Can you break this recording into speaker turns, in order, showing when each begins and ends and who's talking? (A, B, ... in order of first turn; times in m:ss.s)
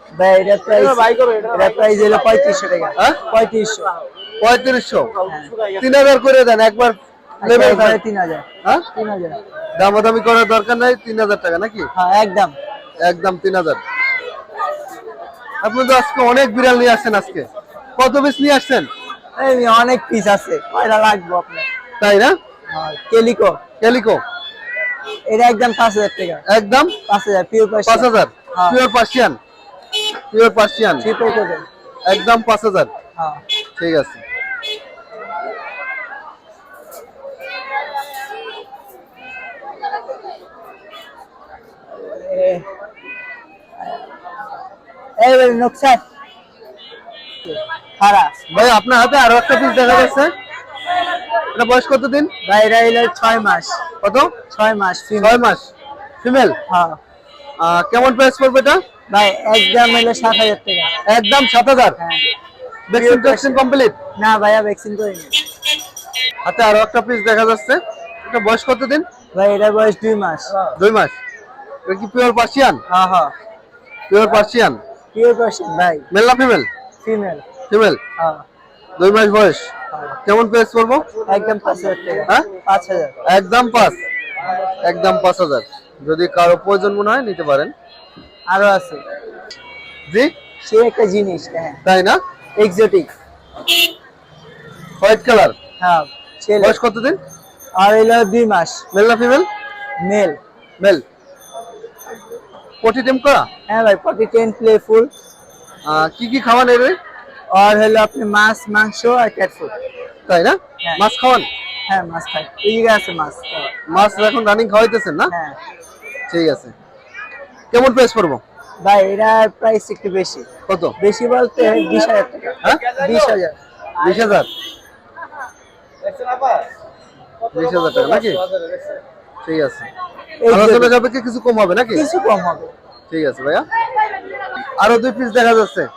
0:00.2-0:03.9 A
0:04.4-0:05.1 B
0:05.3-0:05.5 A
0:05.8-0:08.0 B
0:07.4-0:09.4 A
0:09.8-0:11.9 B
0:11.9-0:12.6 A
0:13.0-0:13.8 B
0:15.6-0:18.9 B
0:19.4-0:21.7 A
0:22.0-0:22.4 B
0:22.7-0:23.6 A
0:23.8-0:24.2 B
0:25.3-0:26.4 A
0:26.5-0:27.0 B
0:27.1-0:28.8 A
0:27.9-0:29.4 B
0:30.3-0:31.1 B
0:31.0-0:31.6 A
0:32.1-0:32.9 B
0:33.8-0:34.2 B
0:42.0-0:42.7 A
0:45.2-0:46.0 A
0:47.5-0:48.3 A
0:48.5-0:50.3 B
0:51.5-0:52.3 B
0:52.4-0:53.8 A
0:54.0-0:54.3 B
0:54.5-0:55.4 A
0:55.2-0:55.7 B
0:56.2-0:56.6 B
0:56.7-0:57.0 A
0:57.6-0:58.8 B
0:59.1-1:00.9 A
1:01.1-1:02.0 B
1:02.0-1:02.2 A
1:02.9-1:04.0 B
1:03.0-1:03.6 A
1:04.2-1:05.3 A
1:06.4-1:09.1 B
1:09.3-1:10.5 A
1:10.7-1:11.2 B
1:11.9-1:12.8 B
1:12.9-1:13.3 A
1:14.1-1:14.8 B
1:15.1-1:16.1 A
1:16.1-1:16.7 B
1:17.0-1:17.4 A
1:17.7-1:18.0 B
1:18.2-1:18.4 A
1:19.0-1:19.7 B
1:20.2-1:21.1 B
1:21.3-1:23.2 A
1:23.2-1:24.0 B
1:24.8-1:27.7 B
1:28.5-1:29.0 A
1:30.6-1:31.8 A
1:31.8-1:32.2 B
1:32.6-1:33.1 A
1:35.0-1:35.6 B
1:35.8-1:36.8 A
1:36.6-1:37.2 B
1:37.8-1:38.8 A
1:38.9-1:39.5 B
1:40.0-1:40.4 A
1:42.8-1:43.5 B
1:43.7-1:45.1 A
1:45.8-1:47.0 B
1:47.5-1:49.7 A
1:50.3-1:51.5 B
1:51.9-1:53.7 A
1:53.9-1:55.3 B
1:55.3-1:55.6 A
1:56.3-1:56.7 B
1:57.7-1:58.4 B
1:58.8-2:00.5 A
2:00.7-2:01.0 B
2:01.0-2:03.6 A
2:04.0-2:04.5 B
2:07.5-2:08.4 B
2:09.4-2:09.9 B
2:10.4-2:10.9 A
2:10.5-2:12.0 B
2:11.9-2:12.7 A
2:13.1-2:13.6 B
2:14.8-2:15.9 B